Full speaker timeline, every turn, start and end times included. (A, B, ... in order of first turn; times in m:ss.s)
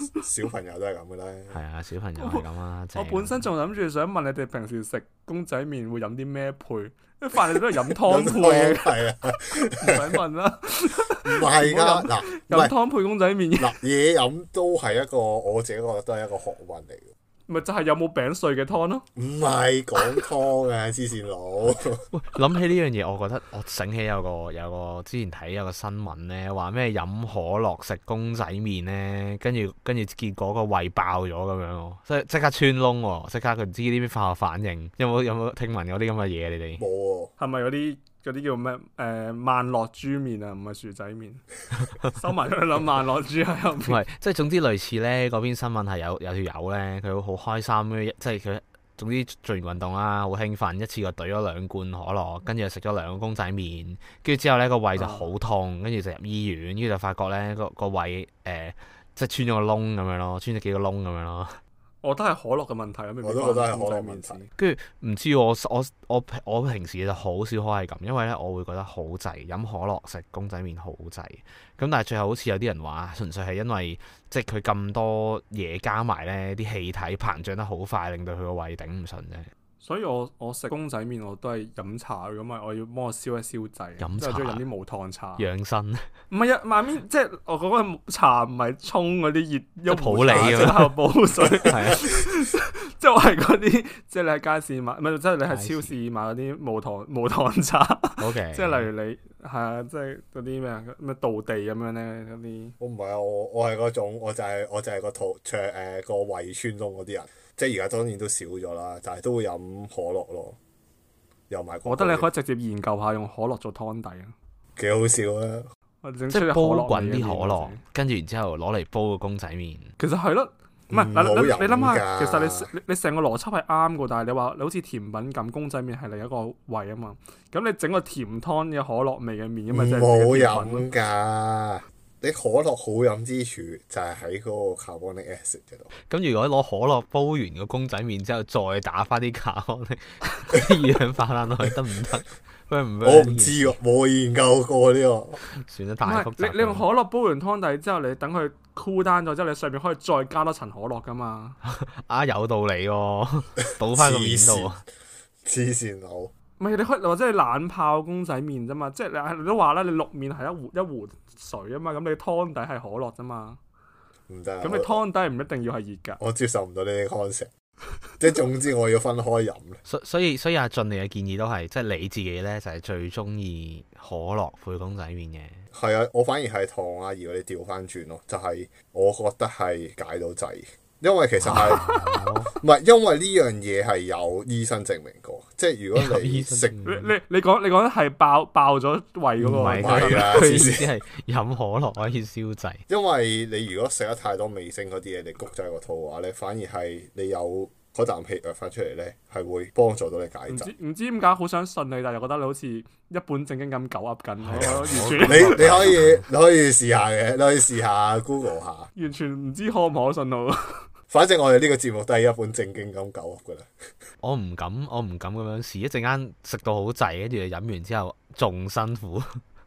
0:00.2-0:01.6 A
0:01.5-0:03.4 B
0:02.2-0:08.9 C
0:07.9-0:10.2 A
0:09.8-0:13.8 C
0:11.2-0:12.7 A
0:13.6-0:17.1 A
0:17.5-0:19.0 C
0:19.2-0:22.0 A
0:22.1-0:36.8 B
0:36.8-0:37.3 A
0:37.4-0:41.4 C
0:42.1-0:44.0 C
0:43.8-1:01.6 B
0:55.0-0:55.3 C
1:02.0-1:04.5 C
1:03.2-1:04.4 A
1:04.6-1:19.5 B
1:19.8-1:25.4 C
1:24.0-1:24.6 B
1:25.4-1:26.0 B
1:26.3-1:42.7 C
1:29.9-1:30.9 B
1:31.6-1:32.2 B
1:35.5-1:35.9 B
1:38.2-1:38.9 B
1:42.8-1:50.6 A
1:51.5-1:52.2 A
1:51.8-1:54.3 C
1:54.8-1:55.7 A
1:56.0-1:57.8 C
1:56.3-1:59.9 B
2:00.0-2:10.9 C
2:00.9-2:02.7 A
2:09.7-2:15.9 A
2:16.1-2:23.7 B
2:23.0-2:25.4 A
2:25.6-2:26.8 B
2:26.0-2:31.6 C
2:31.6-2:34.8 B
2:33.9-2:34.7 A
2:35.4-2:36.3 A
2:36.6-2:43.6 C
2:44.3-2:45.0 A
2:44.6-2:46.2 C
2:46.2-2:47.5 A
2:48.2-2:49.8 A
2:49.8-2:55.6 B
2:55.7-3:06.7 A
3:01.4-3:02.5 B
3:05.9-3:07.1 B
3:06.8-3:10.8 C
3:09.4-3:12.8 B
3:09.8-3:10.9 A
3:12.9-3:20.7 A
3:20.5-3:25.8 C
3:24.4-3:26.2 B
3:25.2-3:28.9 A
3:29.0-3:30.9 C
3:31.1-3:33.7 A
3:34.2-3:39.4 B